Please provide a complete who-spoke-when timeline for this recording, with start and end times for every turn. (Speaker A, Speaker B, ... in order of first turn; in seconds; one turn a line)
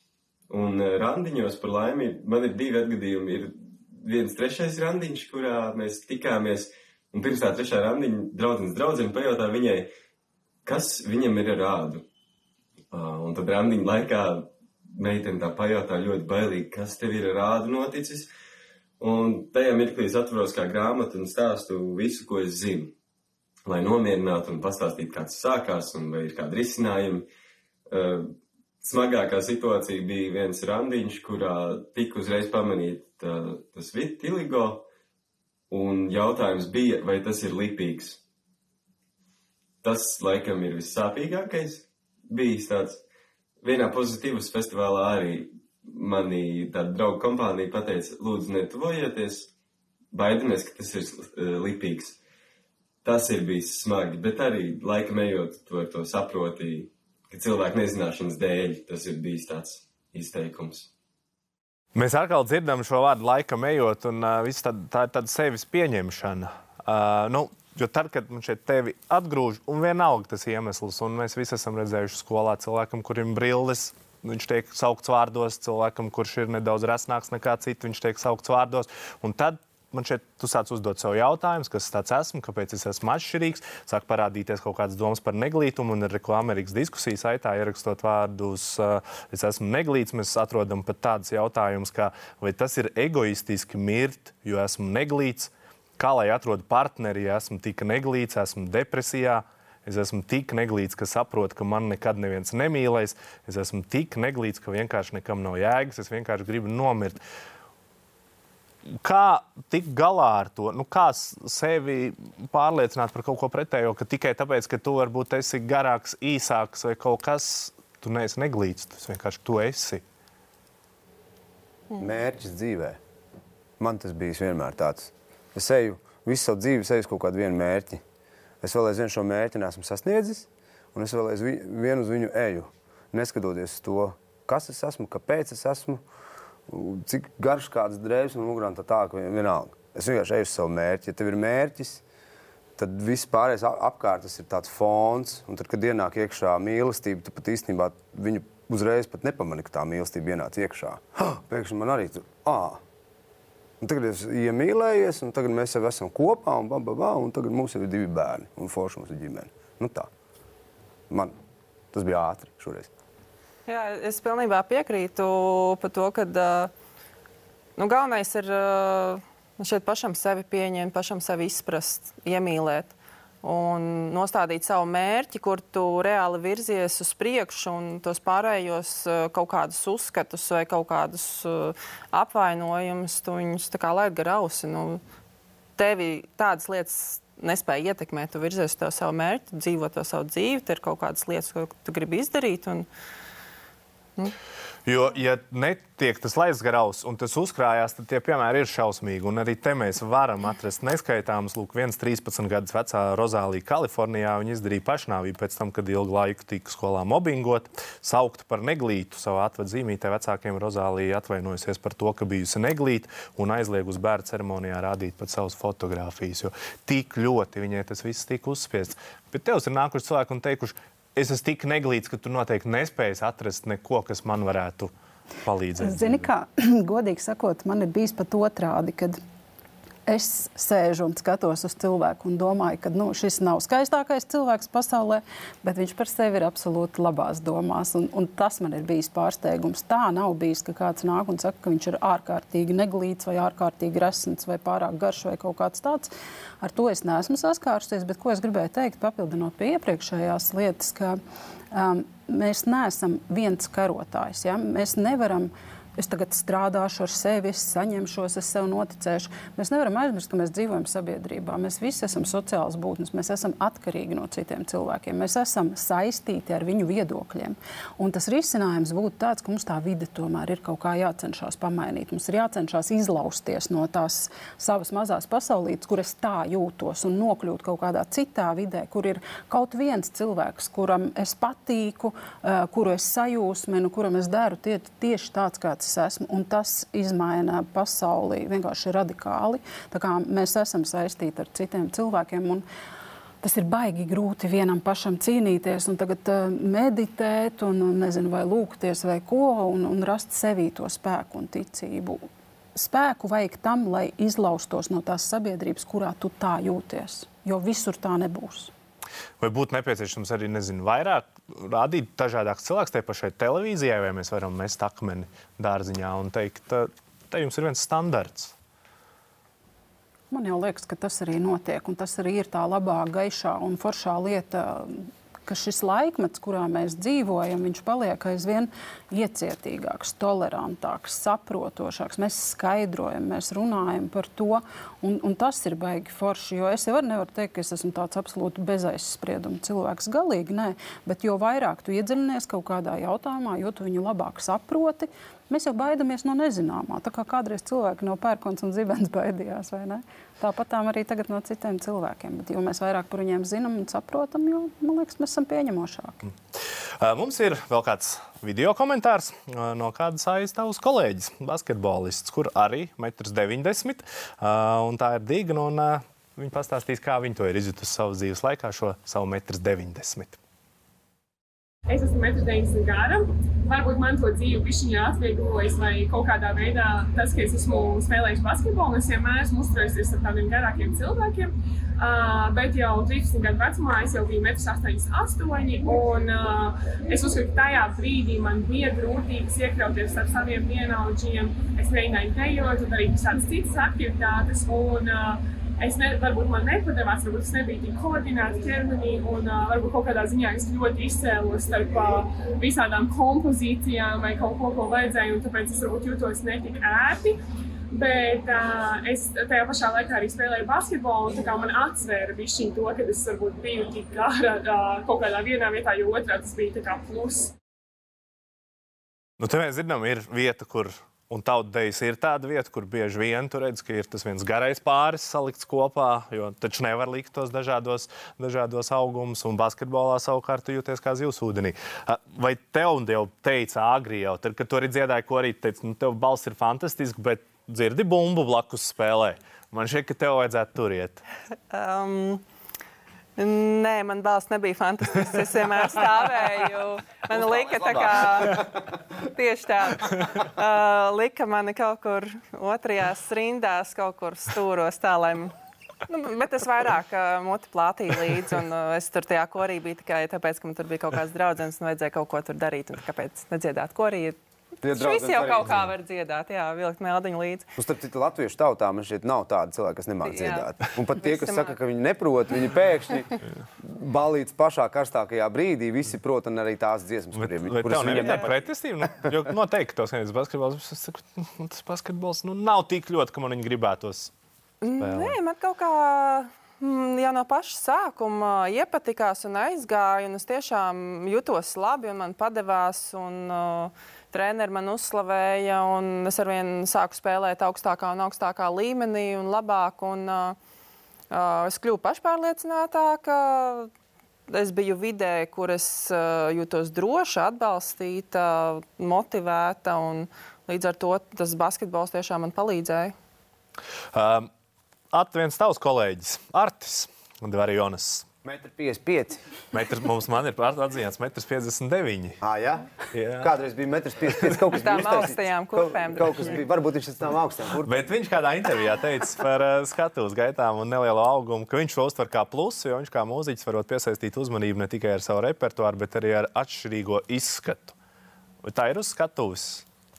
Speaker A: 0.5-9.9
Speaker A: 10.7-12.0
Speaker A: 12.9-18.3
Speaker A: 19.0-22.9
Speaker A: 23.7-27.3
Speaker A: 27.9-34.9
Speaker A: 35.7-38.2
Speaker A: 39.8-43.0
Speaker A: 43.6-49.5
Speaker A: 50.1-52.2
Speaker A: 53.0-60.9
Speaker B: 61.9-107.2
Speaker B: 108.9-120.0
Speaker C: 122.0-123.0
Speaker C: 123.8-128.0
Speaker C: 128.6-136.0
Speaker C: 136.7-142.0
Speaker C: 142.8-152.8
Speaker C: 153.8-160.1
Speaker C: 161.1-161.4
Speaker C: 161.9-162.9
Speaker D: 163.7-166.7
Speaker D: 167.8-185.0
Speaker D: 185.8-192.9
Speaker B: 194.9-224.9
Speaker B: 225.4-226.3
Speaker E: 225.8-229.2
Speaker E: 230.1-251.2
Speaker E: 251.7-292.6
Speaker E: 293.4-302.2
Speaker E: 302.8-308.7
Speaker B: 309.4-318.5
Speaker E: 320.3-356.3
Speaker B: 357.0-370.4
Speaker F: 371.9-407.4
Speaker F: 407.9-417.6
Speaker B: 419.4-441.2
Speaker D: 441.7-442.4
Speaker D: 443.4-448.7
Speaker C: 447.4-448.4
Speaker D: 449.2-455.5
Speaker D: 456.1-467.7
Speaker C: 464.8-465.8
Speaker C: 467.8-478.5
Speaker D: 470.2-471.8
Speaker B: 477.4-484.3
Speaker D: 478.1-478.4
Speaker D: 484.8-500.6
Speaker B: 485.0-485.4
Speaker D: 501.3-503.9
Speaker D: 504.5-513.1
Speaker B: 514.1-514.5
Speaker B: 515.1-518.3
Speaker C: 518.4-519.4
Speaker B: 519.7-522.4
Speaker C: 522.4-528.0
Speaker B: 523.1-523.5
Speaker D: 524.7-526.6
Speaker B: 527.8-538.0
Speaker B: 538.6-539.9